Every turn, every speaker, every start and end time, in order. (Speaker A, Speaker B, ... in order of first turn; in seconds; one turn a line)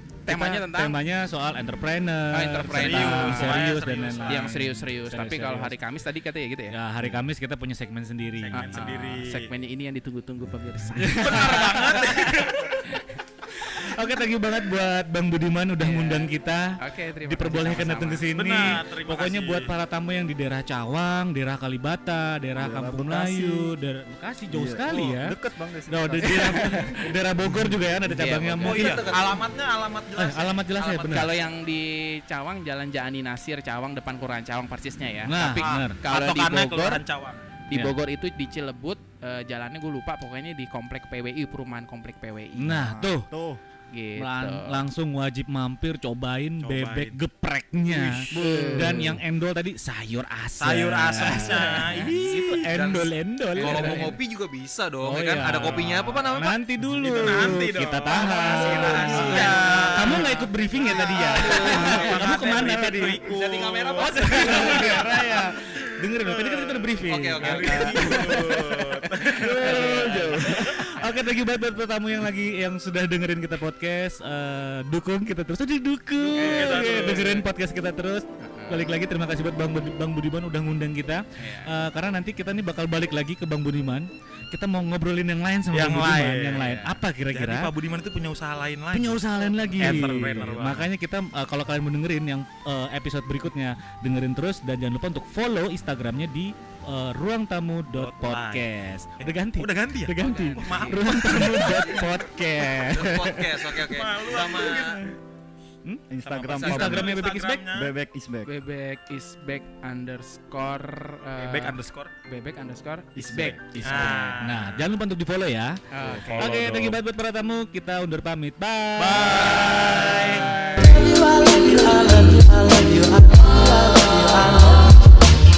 Speaker A: 0.2-1.0
Speaker B: 0.3-5.8
Speaker A: 2.3-6.7
Speaker C: 2.7-4.5
Speaker B: 6.7-8.9
Speaker C: 8.4-9.5
Speaker A: 8.5-13.1
Speaker B: 11.0-12.0
Speaker C: 11.2-12.7
Speaker B: 13.5-25.3
Speaker A: 15.8-18.3
Speaker C: 18.3-19.7
Speaker D: 22.6-23.7
Speaker D: 24.5-27.0
Speaker C: 24.9-25.1
Speaker B: 25.9-29.1
Speaker A: 26.3-27.0
Speaker A: 28.1-29.0
Speaker E: 28.6-29.4
Speaker C: 28.6-31.0
Speaker B: 30.1-31.3
Speaker E: 30.8-31.5
Speaker A: 31.1-37.0
Speaker B: 35.3-36.0
Speaker C: 35.6-37.5
Speaker A: 37.7-42.8
Speaker B: 37.7-38.0
Speaker B: 42.5-43.3
Speaker D: 42.7-43.6
Speaker A: 43.9-44.8
Speaker B: 44.2-54.1
Speaker C: 46.6-47.2
Speaker C: 47.9-48.2
Speaker D: 48.3-49.1
Speaker A: 48.4-49.1
Speaker C: 50.6-52.4
Speaker A: 51.2-52.0
Speaker E: 52.2-56.5
Speaker A: 53.5-54.1
Speaker B: 55.0-63.2
Speaker C: 55.6-70.8
Speaker E: 58.2-60.3
Speaker A: 59.1-59.6
Speaker E: 61.1-62.3
Speaker E: 63.2-65.1
Speaker B: 64.0-68.6
Speaker E: 67.0-68.2
Speaker A: 67.7-70.8
Speaker D: 69.4-70.6
Speaker B: 69.7-87.7
Speaker C: 76.2-77.5
Speaker A: 76.3-77.0
Speaker A: 78.4-78.9
Speaker A: 81.4-81.7
Speaker C: 85.7-90.9
Speaker B: 88.9-103.7
Speaker A: 89.4-90.4
Speaker C: 97.9-102.1
Speaker A: 100.2-101.3
Speaker E: 102.9-105.0
Speaker C: 103.8-105.0
Speaker D: 106.1-107.1
Speaker C: 106.2-107.9
Speaker E: 106.5-107.0
Speaker B: 106.6-107.7
Speaker D: 107.7-108.5
Speaker A: 108.5-113.6
Speaker C: 111.4-112.1
Speaker D: 113.1-114.2
Speaker B: 113.8-115.8
Speaker C: 113.8-114.9
Speaker A: 115.9-116.6
Speaker C: 116.0-117.0
Speaker B: 116.3-120.6
Speaker C: 119.0-121.0
Speaker A: 120.8-124.5